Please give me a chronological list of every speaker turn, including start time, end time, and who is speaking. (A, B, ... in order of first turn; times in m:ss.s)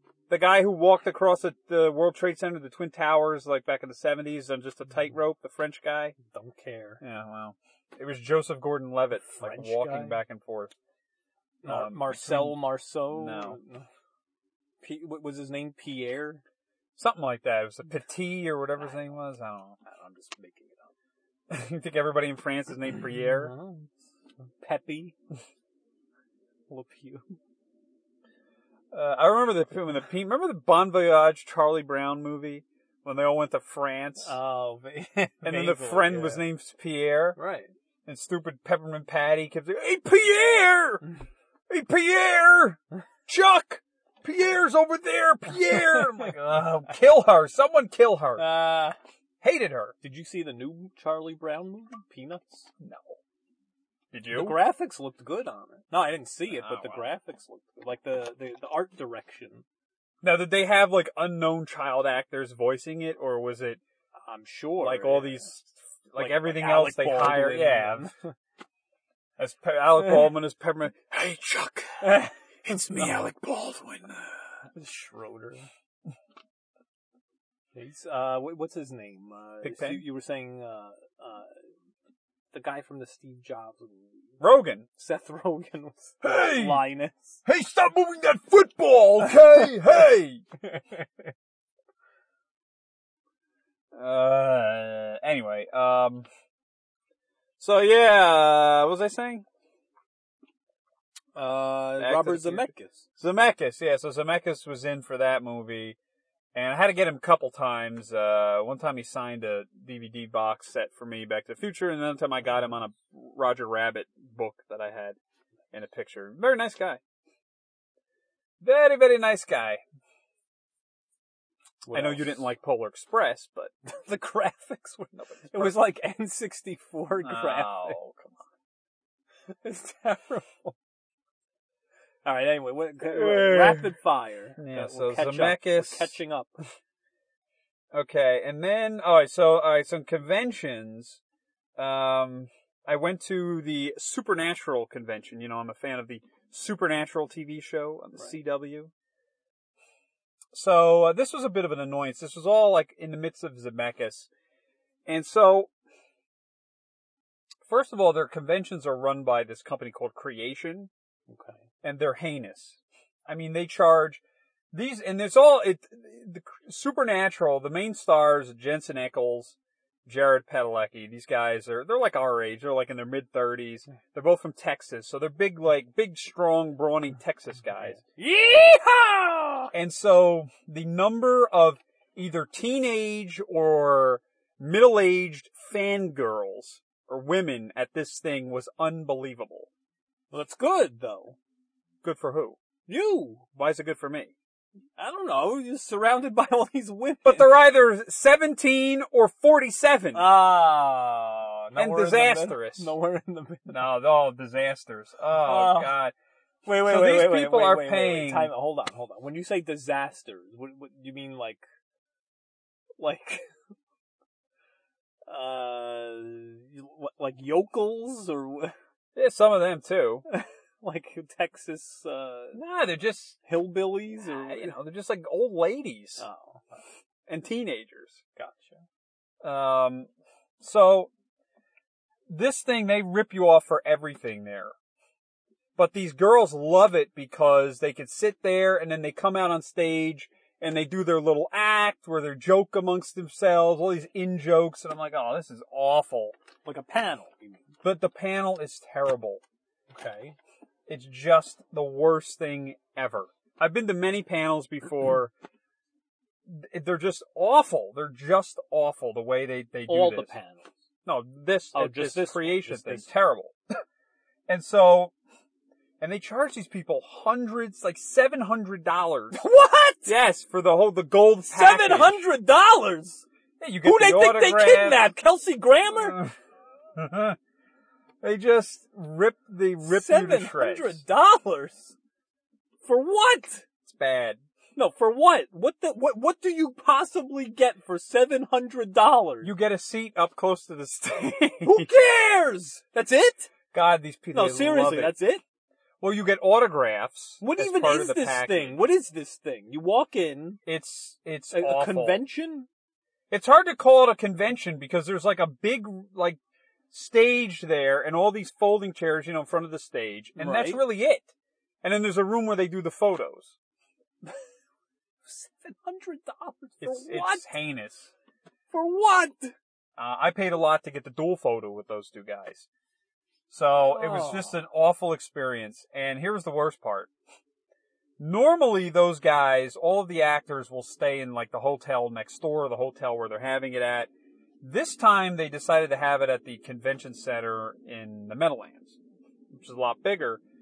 0:00.3-0:06.2 A
0:06.2-0:07.0 B
0:07.0-0:10.7 A
0:09.3-0:10.2 B
0:11.6-0:13.6 A
0:11.6-0:13.9 B
0:14.8-0:16.4 B
0:17.0-0:19.8 A
0:19.8-0:20.9 B
0:21.5-0:23.5 A
0:23.4-0:23.9 B
0:24.6-0:25.2 B
0:26.7-0:27.4 B
0:28.9-0:34.4 A
0:34.2-0:36.4 B
0:35.4-0:37.4 A
0:37.4-0:37.7 B
0:38.1-0:41.1 A
0:41.7-0:48.6 A
0:48.4-0:49.0 B
0:49.4-0:50.0 A
0:50.0-0:52.7 B
0:52.8-0:53.2 A
0:54.1-0:54.6 A
0:54.3-0:59.6 B
0:56.5-0:57.1 A
1:00.2-1:03.8 A
1:04.2-1:05.6 B
1:04.8-1:08.1 A
1:06.2-1:08.3 B
1:09.4-1:14.4 A
1:12.9-1:13.3 B
1:14.7-1:15.7 B
1:17.7-1:21.6 B
1:19.6-1:20.1 A
1:22.5-1:24.3 B
1:24.4-1:24.9 A
1:25.0-1:27.4 B
1:26.2-1:26.9 A
1:27.4-1:30.4 A
1:33.9-1:36.3 A
1:37.6-1:39.4 A
1:41.4-1:43.1 B
1:42.0-1:46.0 A
1:46.6-1:55.2 A
1:55.7-1:57.0 A
1:58.6-1:59.8 A
2:01.8-2:02.4 B
2:01.9-2:03.7 A
2:03.9-2:08.0 B
2:05.2-2:05.8 A
2:07.2-2:08.4 A
2:09.5-2:10.8 B
2:12.2-2:16.6 B
2:13.0-2:14.0 A
2:14.6-2:16.2 A
2:17.9-2:21.2 A
2:21.8-2:28.9 A
2:30.5-2:34.3 A
2:35.1-2:35.7 A
2:37.6-2:40.9 A
2:41.3-2:41.6 B
2:41.8-2:44.2 A
2:44.7-2:58.0 A
2:58.1-2:59.7 B
2:59.7-3:09.7 A
3:10.3-3:11.4 B
3:12.0-3:12.6 A
3:12.9-3:13.5 B
3:13.6-3:14.3 A
3:15.0-3:17.5 B
3:17.2-3:20.4 A
3:20.1-3:23.8 B
3:21.7-3:22.9 A
3:23.7-3:26.1 A
3:25.4-3:26.0 B
3:26.6-3:31.6 B
3:26.7-3:28.5 A
3:33.0-3:33.5 B
3:35.3-3:38.8 B
3:39.2-3:40.2 A
3:40.3-3:42.6 B
3:42.5-3:43.4 A
3:43.4-3:44.8 B
3:44.2-3:46.2 A
3:46.2-3:46.8 B
3:47.3-3:48.2 A
3:48.4-3:48.8 B
3:49.4-3:50.1 A
3:50.6-3:51.1 A
3:52.3-3:54.7 A
3:55.8-4:06.4 A
4:06.6-4:07.6 B
4:07.8-4:09.4 A
4:09.9-4:10.4 B
4:10.9-4:15.3 A
4:16.5-4:20.3 A
4:19.9-4:20.8 B
4:21.0-4:23.6 A
4:21.7-4:23.1 B
4:24.5-4:25.1 A
4:26.0-4:29.4 A
4:29.3-4:30.1 B
4:30.0-4:32.3 A
4:31.5-4:33.3 B
4:33.6-4:35.1 A
4:33.8-4:36.2 B
4:36.0-4:36.3 A
4:37.0-4:37.4 A
4:38.2-4:41.0 A
4:39.8-4:42.0 B
4:42.8-4:43.7 B
4:43.8-4:44.4 A
4:44.8-4:49.5 B
4:49.4-4:51.9 A
4:51.6-4:53.5 B
4:53.7-4:55.2 A
4:54.3-4:55.4 B
4:56.0-4:58.9 A
4:57.4-5:00.6 B
5:00.7-5:02.2 A
5:01.5-5:02.7 B
5:03.3-5:06.4 A
5:06.9-5:13.6 A
5:10.4-5:10.8 B
5:15.2-5:17.5 B
5:16.8-5:18.1 A
5:18.7-5:19.5 B
5:20.0-5:22.7 A
5:23.5-5:27.1 A
5:23.9-5:24.6 B
5:28.2-5:34.1 A
5:34.6-5:39.0 A
5:39.5-5:40.4 A